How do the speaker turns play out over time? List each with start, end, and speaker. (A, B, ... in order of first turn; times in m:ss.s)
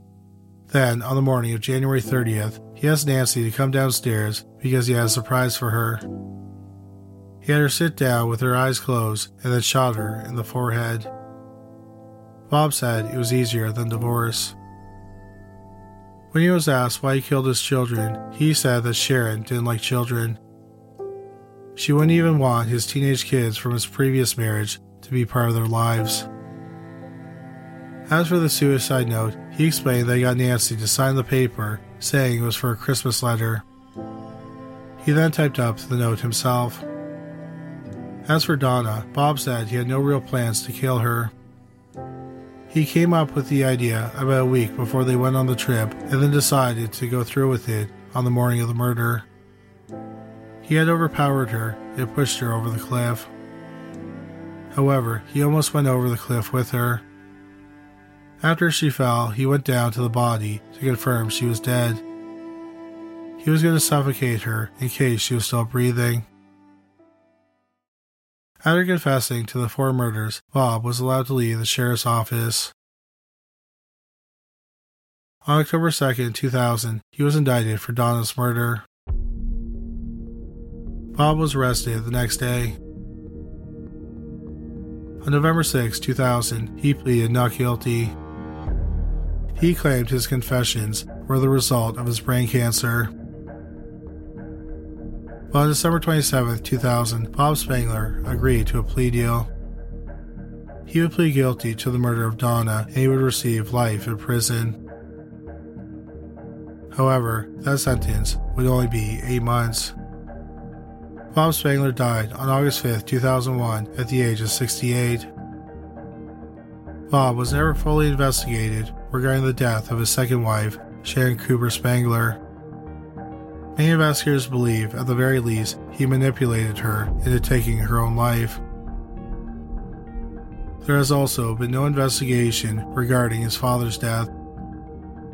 0:00.7-0:06.0 A
0:07.4-0:11.1 A
0:12.5-0:14.6 A
0:16.3-0:20.4 A
0:21.8-0:26.3 A
0:28.1-0:33.6 A
0:35.0-0:36.8 A
0:38.2-0:41.3 A
0:42.7-0:49.3 A
0:50.6-0:53.3 A
0:54.7-0:57.0 A
0:58.4-1:02.0 A
1:03.4-1:06.3 A
1:08.6-1:12.7 A
1:15.4-1:18.8 A
1:21.1-1:22.8 A
1:25.2-1:28.2 A
1:29.6-1:33.1 A
1:35.5-1:39.5 A
1:40.9-1:44.8 A
1:46.9-1:49.9 A
1:51.3-1:55.3 A
1:57.1-2:02.4 A
2:03.8-2:08.6 A
2:10.8-2:14.3 A